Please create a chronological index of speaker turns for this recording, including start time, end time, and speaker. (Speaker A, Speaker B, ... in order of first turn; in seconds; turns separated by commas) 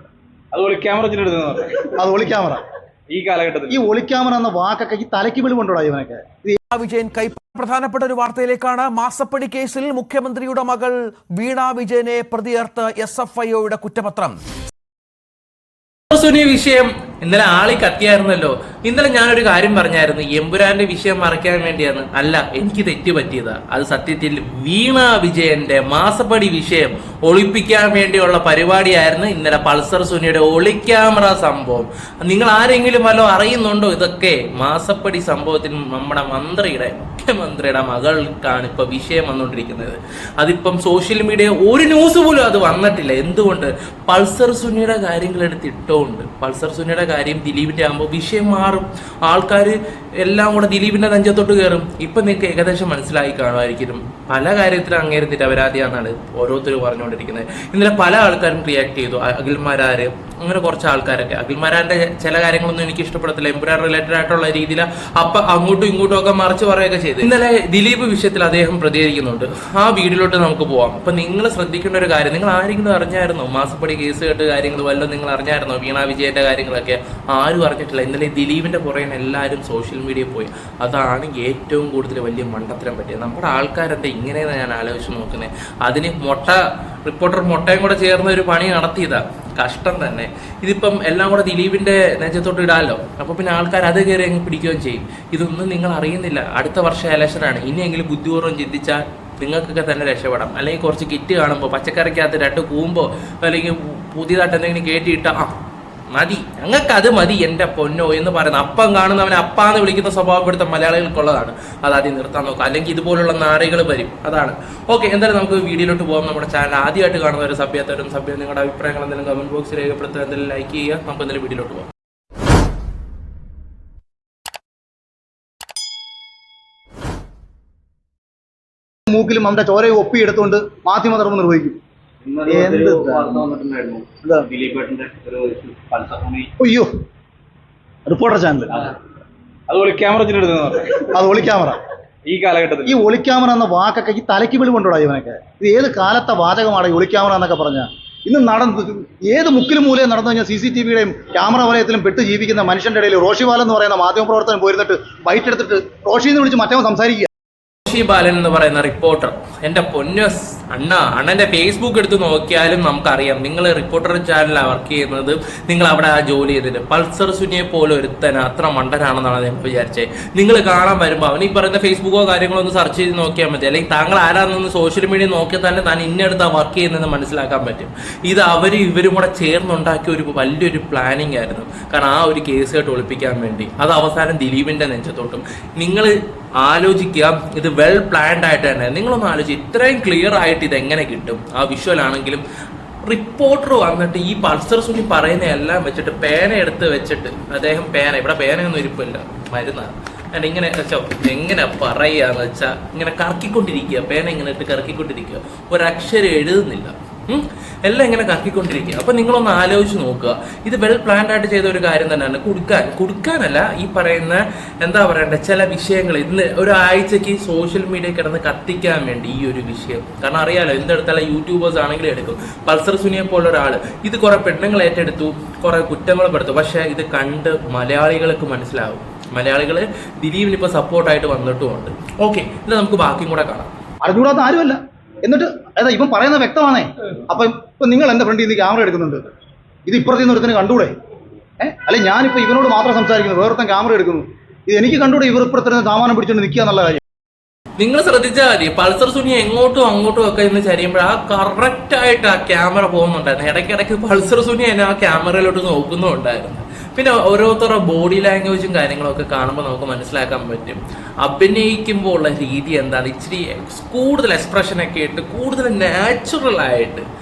Speaker A: 0.5-1.9, Speaker B: 2.0-2.6, Speaker A: 3.1-3.8, Speaker B: 3.7-6.6, Speaker C: 6.7-14.4, Speaker D: 16.1-105.5, Speaker D: 106.1-121.9, Speaker B: 129.1-131.8, Speaker A: 132.2-136.5, Speaker B: 132.5-133.3, Speaker B: 136.6-136.9, Speaker B: 138.1-138.7, Speaker A: 139.7-141.1, Speaker B: 141.1-141.8, Speaker A: 142.3-143.0, Speaker B: 142.8-157.3, Speaker D: 157.9-192.4, Speaker D: 193.0-233.7, Speaker B: 234.0-239.2, Speaker B: 239.8-240.9, Speaker B: 241.6-247.0, Speaker D: 247.8-267.0